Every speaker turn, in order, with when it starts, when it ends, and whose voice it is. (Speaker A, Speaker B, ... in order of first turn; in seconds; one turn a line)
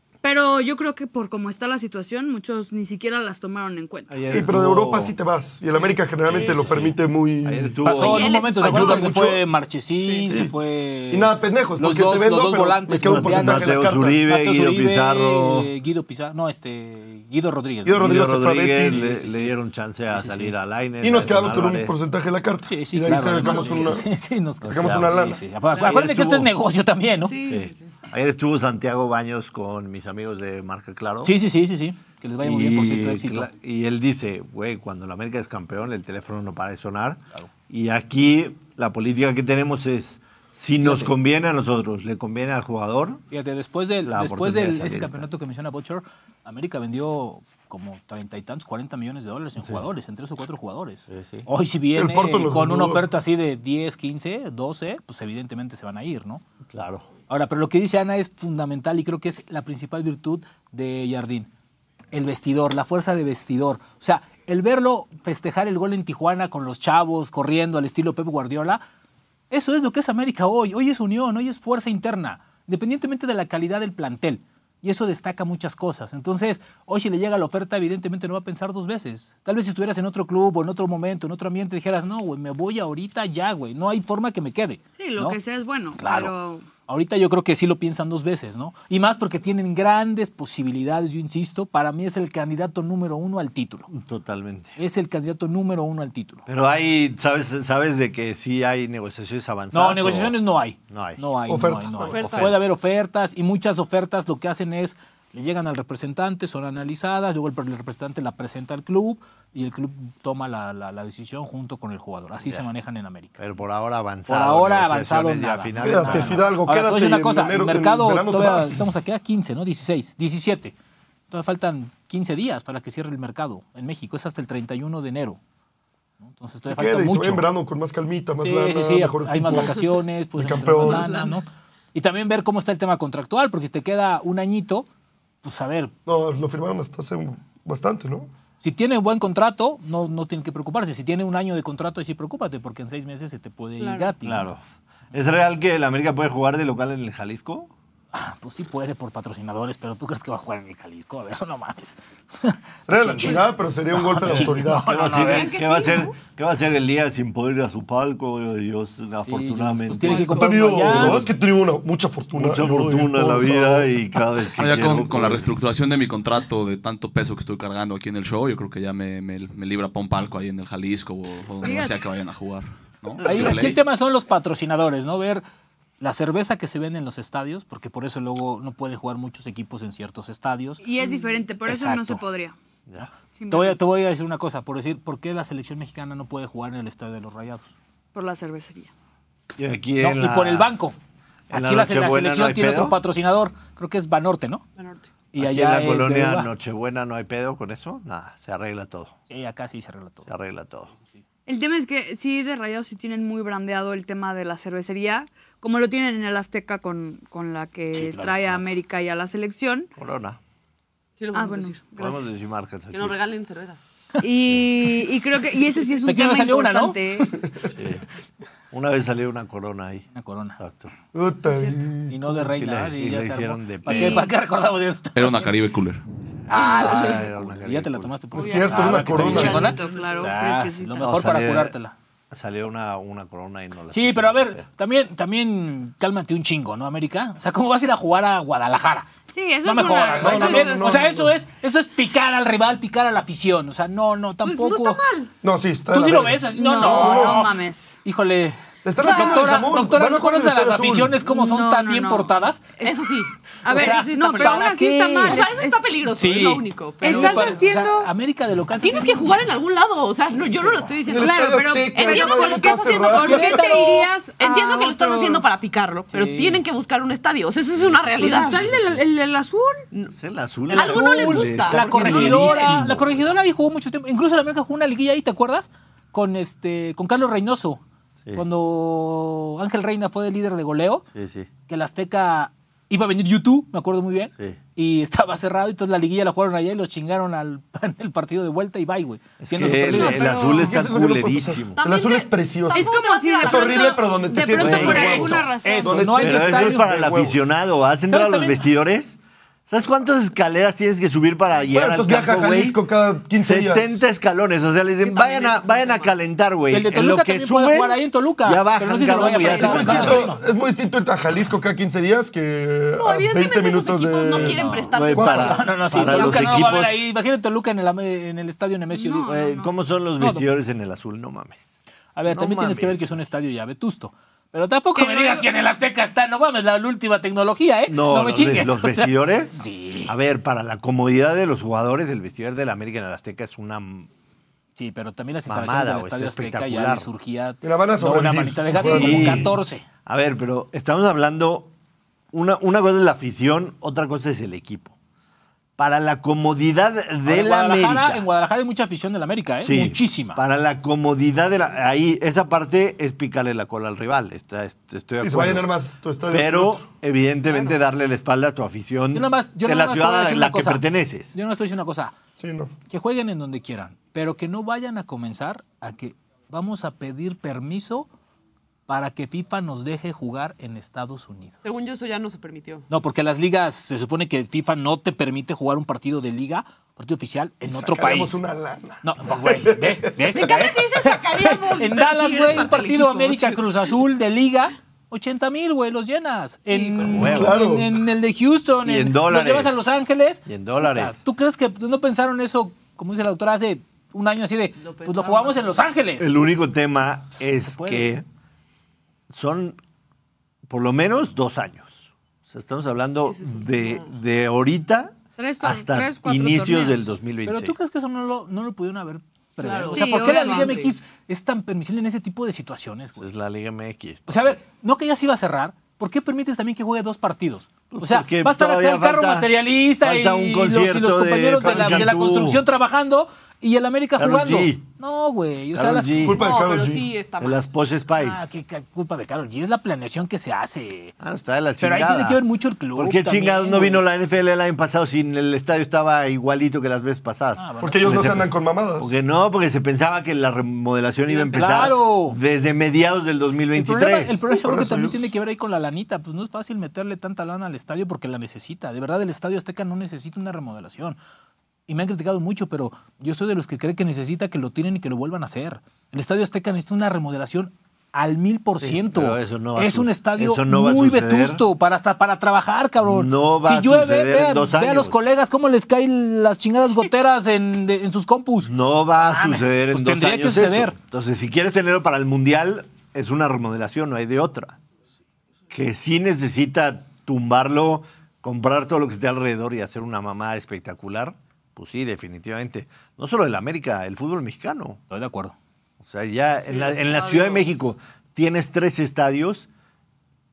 Speaker A: 0.2-4.3
Speaker B: 4.1-5.1
Speaker C: 4.3-9.4
Speaker D: 6.3-6.8
Speaker B: 6.3-8.3
Speaker E: 6.3-6.9
Speaker E: 7.8-18.0
Speaker D: 8.0-9.2
Speaker D: 10.0-10.4
Speaker C: 11.1-14.2
Speaker B: 13.0-15.7
Speaker C: 17.9-19.1
Speaker B: 17.9-21.9
Speaker E: 18.8-19.6
Speaker E: 20.1-20.5
Speaker C: 21.0-24.1
Speaker E: 22.7-27.3
Speaker C: 24.6-25.4
Speaker B: 24.6-26.5
Speaker D: 27.2-27.9
Speaker B: 27.5-31.4
Speaker E: 31.2-33.5
Speaker B: 32.4-43.2
Speaker E: 40.8-41.1
Speaker E: 43.3-56.4
Speaker B: 44.0-45.3
Speaker B: 49.6-49.9
Speaker B: 51.1-51.5
Speaker C: 51.9-53.1
Speaker B: 56.7-57.1
Speaker E: 57.3-61.5
Speaker E: 62.1-68.8
Speaker E: 69.5-85.4
Speaker A: 85.0-86.7
Speaker E: 86.0-86.3
Speaker E: 86.9-93.9
Speaker B: 93.9-94.8
Speaker E: 94.8-96.5
Speaker B: 96.5-101.3
Speaker E: 99.7-113.4
Speaker C: 101.5-102.5
Speaker D: 102.0-102.5
Speaker B: 102.1-102.6
Speaker B: 113.4-116.5
Speaker E: 114.3-120.8
Speaker C: 115.8-118.9
Speaker E: 121.3-125.4
Speaker E: 126.2-127.5
Speaker C: 126.7-131.2
Speaker E: 128.4-134.9
Speaker D: 130.8-131.4
Speaker E: 135.4-135.9
Speaker C: 136.1-138.3
Speaker E: 138.6-144.5
Speaker D: 143.8-144.2
Speaker B: 144.2-144.6
Speaker B: 145.1-147.7
Speaker E: 148.1-155.5
Speaker C: 152.9-154.9
Speaker B: 154.2-160.3
Speaker D: 155.2-156.1
Speaker E: 159.2-161.3
Speaker D: 159.9-160.8
Speaker C: 160.2-163.9
Speaker B: 160.9-161.2
Speaker B: 162.3-165.5
Speaker F: 164.6-173.8
Speaker A: 171.6-172.0
Speaker E: 173.2-175.4
Speaker E: 176.0-180.8
Speaker A: 180.8-182.6
Speaker E: 181.7-182.2
Speaker A: 183.3-183.8
Speaker E: 183.5-187.8
Speaker A: 188.1-188.9
Speaker B: 189.6-190.7
Speaker E: 190.0-191.0
Speaker B: 191.5-193.0
Speaker E: 191.5-194.6
Speaker D: 194.8-195.1
Speaker E: 195.3-196.5
Speaker B: 195.4-199.1
Speaker E: 199.3-200.3
Speaker B: 200.3-200.9
Speaker A: 201.5-209.9
Speaker E: 207.9-208.7
Speaker B: 210.0-210.4
Speaker D: 211.2-211.9
Speaker A: 211.3-212.3
Speaker B: 212.0-213.2
Speaker D: 212.9-213.9
Speaker A: 214.2-217.4
Speaker E: 216.0-217.3
Speaker B: 217.7-218.1
Speaker B: 218.7-220.1
Speaker E: 220.1-220.6
Speaker B: 220.6-220.9
Speaker C: 221.1-222.2
Speaker A: 221.5-221.9
Speaker E: 222.1-225.5
Speaker B: 222.3-224.3
Speaker A: 223.9-224.3
Speaker F: 225.2-226.0
Speaker E: 226.5-231.9
Speaker B: 226.6-228.2
Speaker C: 228.3-229.7
Speaker A: 228.4-231.2
Speaker B: 228.7-229.7
Speaker D: 229.2-230.4
Speaker B: 231.0-231.8
Speaker B: 232.3-234.6
Speaker E: 233.9-239.1
Speaker A: 239.3-240.8
Speaker E: 239.6-245.0
Speaker C: 240.2-241.3
Speaker D: 240.2-240.9
Speaker D: 244.4-245.3
Speaker C: 245.4-247.4
Speaker E: 245.9-252.7
Speaker A: 246.5-248.0
Speaker C: 248.8-251.2
Speaker A: 249.0-249.7
Speaker A: 251.2-253.1
Speaker D: 252.8-257.7
Speaker A: 253.6-255.8
Speaker E: 253.7-255.5
Speaker E: 256.1-259.4
Speaker A: 257.0-258.1
Speaker D: 258.8-263.8
Speaker C: 261.1-263.5
Speaker A: 261.2-265.4
Speaker E: 263.2-264.1
Speaker D: 264.4-268.7
Speaker E: 266.1-266.6
Speaker B: 267.9-268.4
Speaker A: 268.1-269.9
Speaker B: 270.1-273.3
Speaker E: 270.7-277.8
Speaker D: 270.7-272.7
Speaker A: 272.0-272.8
Speaker E: 278.3-281.1
Speaker B: 281.1-281.5
Speaker E: 281.7-290.5
Speaker B: 289.4-291.8
Speaker A: 289.8-290.7
Speaker C: 290.5-297.4
Speaker D: 291.7-295.1
Speaker A: 292.7-296.1
Speaker B: 294.6-295.4
Speaker E: 295.6-296.9
Speaker B: 296.2-302.8
Speaker E: 298.1-298.7
Speaker C: 301.7-304.0
Speaker B: 303.4-310.3
Speaker D: 305.0-306.1
Speaker E: 306.7-310.4
Speaker D: 309.1-310.2
Speaker C: 309.5-314.6
Speaker D: 313.0-316.5
Speaker E: 314.4-319.4
Speaker B: 314.5-317.0
Speaker C: 315.2-315.7
Speaker A: 318.9-319.7
Speaker B: 319.3-321.6
Speaker E: 320.2-320.5
Speaker E: 322.2-330.1
Speaker B: 322.3-323.2
Speaker A: 324.9-325.5
Speaker B: 327.9-334.1
Speaker E: 334.8-339.9
Speaker B: 335.5-337.1
Speaker C: 337.6-339.5
Speaker B: 338.8-341.7
Speaker B: 342.3-344.9
Speaker B: 345.8-348.3
Speaker E: 347.2-350.4
Speaker B: 349.6-355.7
Speaker C: 355.2-356.9
Speaker B: 356.3-361.4
Speaker E: 359.1-362.1
Speaker C: 362.4-362.7
Speaker E: 362.9-368.1
Speaker E: 368.9-371.6
Speaker D: 371.6-372.9
Speaker E: 372.9-378.4
Speaker C: 377.6-380.3
Speaker E: 379.0-396.4
Speaker D: 380.3-383.9
Speaker D: 386.7-387.3
Speaker B: 387.1-387.6
Speaker C: 387.1-388.0
Speaker B: 388.8-389.8
Speaker B: 390.5-391.2
Speaker D: 394.8-395.8
Speaker B: 396.2-398.2
Speaker E: 397.6-398.1
Speaker B: 399.3-399.8
Speaker B: 400.7-407.8
Speaker D: 403.2-404.1
Speaker A: 405.4-407.0
Speaker E: 407.4-413.2
Speaker D: 409.6-411.0
Speaker A: 409.9-410.8
Speaker B: 413.2-414.5
Speaker E: 414.3-426.4
Speaker B: 417.9-422.6
Speaker B: 424.2-424.9
Speaker B: 425.7-426.4
Speaker C: 426.2-427.1
Speaker D: 426.3-427.6
Speaker B: 427.4-428.6
Speaker E: 428.2-431.1
Speaker B: 431.2-432.4
Speaker E: 431.8-434.0
Speaker B: 433.0-444.5
Speaker E: 437.6-438.4
Speaker C: 437.8-439.1
Speaker E: 441.3-442.4
Speaker E: 443.7-451.2
Speaker C: 444.5-445.2
Speaker E: 451.9-471.0
Speaker B: 458.8-461.6
Speaker B: 463.0-465.2
Speaker B: 468.6-474.8
Speaker B: 475.7-485.0
Speaker E: 485.1-485.6
Speaker B: 486.0-489.7
Speaker D: 486.7-487.7